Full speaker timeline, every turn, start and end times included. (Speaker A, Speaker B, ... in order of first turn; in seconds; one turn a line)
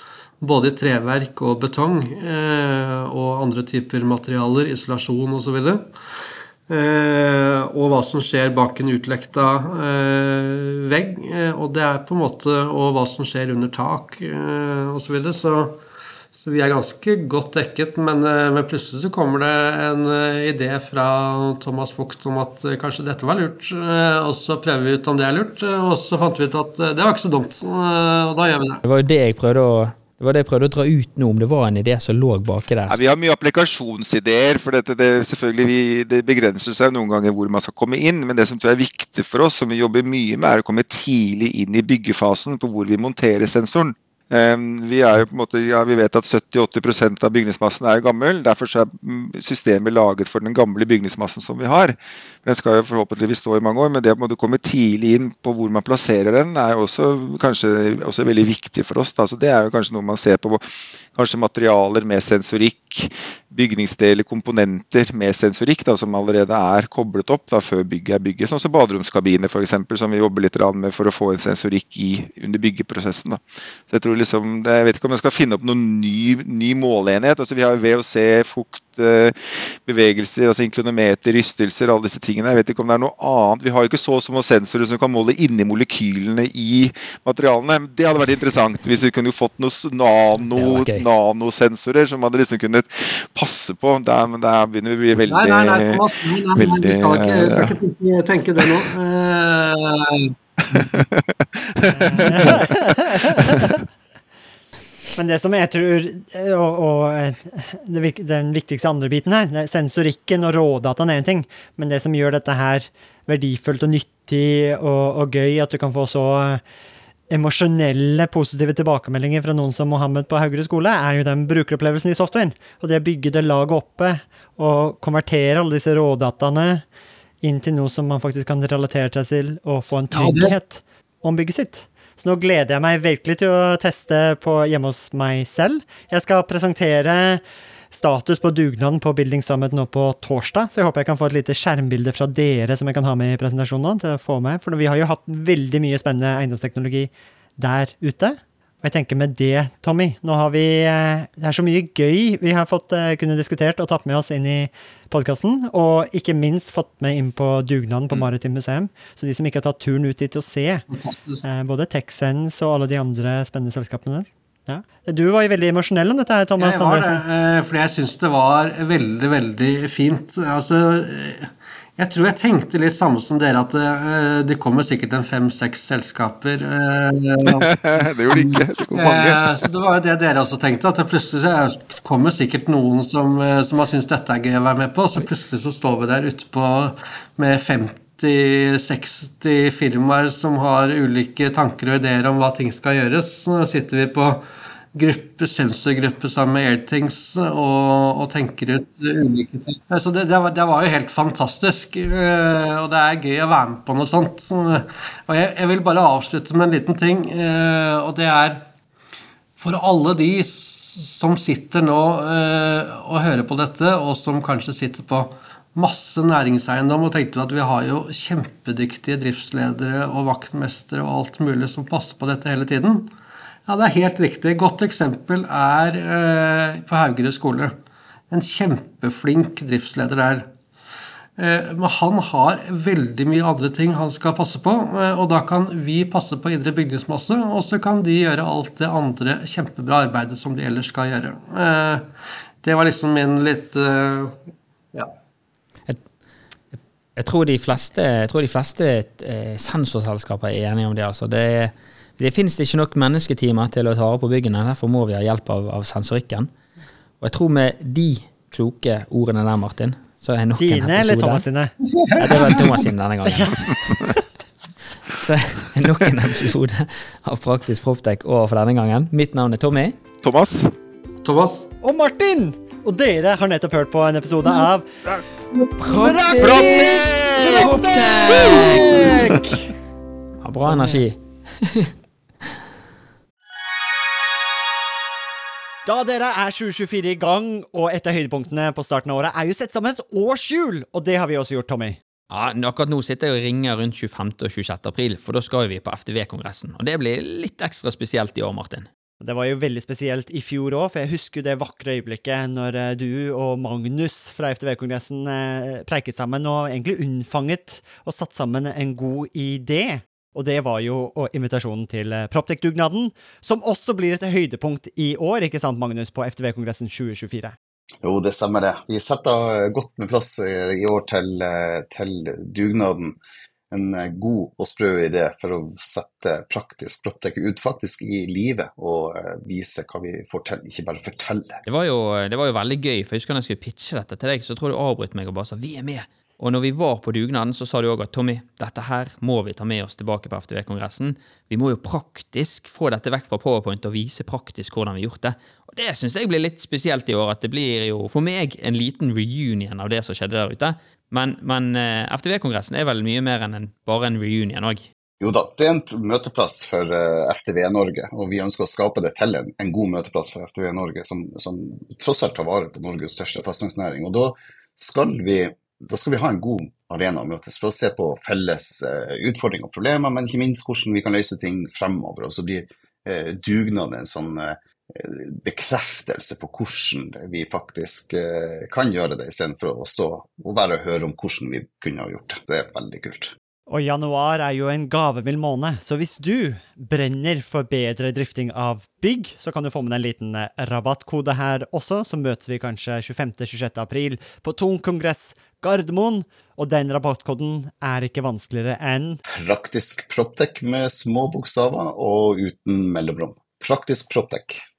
Speaker A: 0.4-6.0
Speaker A: 6.7-15.8
Speaker A: 16.4-28.8
Speaker B: 28.9-33.0
Speaker C: 32.9-97.8
Speaker B: 90.5-91.1
Speaker A: 95.3-100.4
Speaker C: 100.7-103.7
Speaker D: 101.9-103.8
Speaker D: 105.2-116.6
Speaker D: 117.3-126.8
Speaker D: 127.4-160.8
Speaker A: 130.1-130.5
Speaker A: 160.9-161.4
Speaker D: 161.4-167.2
Speaker A: 166.6-208.7
Speaker C: 177.6-179.6
Speaker A: 209.6-223.1
Speaker A: 223.7-227.7
Speaker A: 228.3-230.5
Speaker A: 231.4-244.4
Speaker B: 246.7-256.5
Speaker B: 257.2-261.4
Speaker D: 260.6-261.7
Speaker A: 262.1-262.8
Speaker B: 262.1-264.1
Speaker D: 263.3-263.7
Speaker B: 265.1-270.0
Speaker C: 270.2-270.7
Speaker A: 271.2-271.7
Speaker D: 271.8-274.9
Speaker B: 275.6-279.4
Speaker D: 275.9-279.7
Speaker C: 276.4-277.7
Speaker B: 280.4-281.9
Speaker D: 280.6-281.0
Speaker D: 285.9-292.0
Speaker B: 292.3-298.9
Speaker D: 299.2-317.6
Speaker E: 318.0-323.2
Speaker E: 323.7-331.6
Speaker B: 331.7-354.9
Speaker E: 355.2-383.3
Speaker D: 383.7-399.2
Speaker E: 399.3-404.6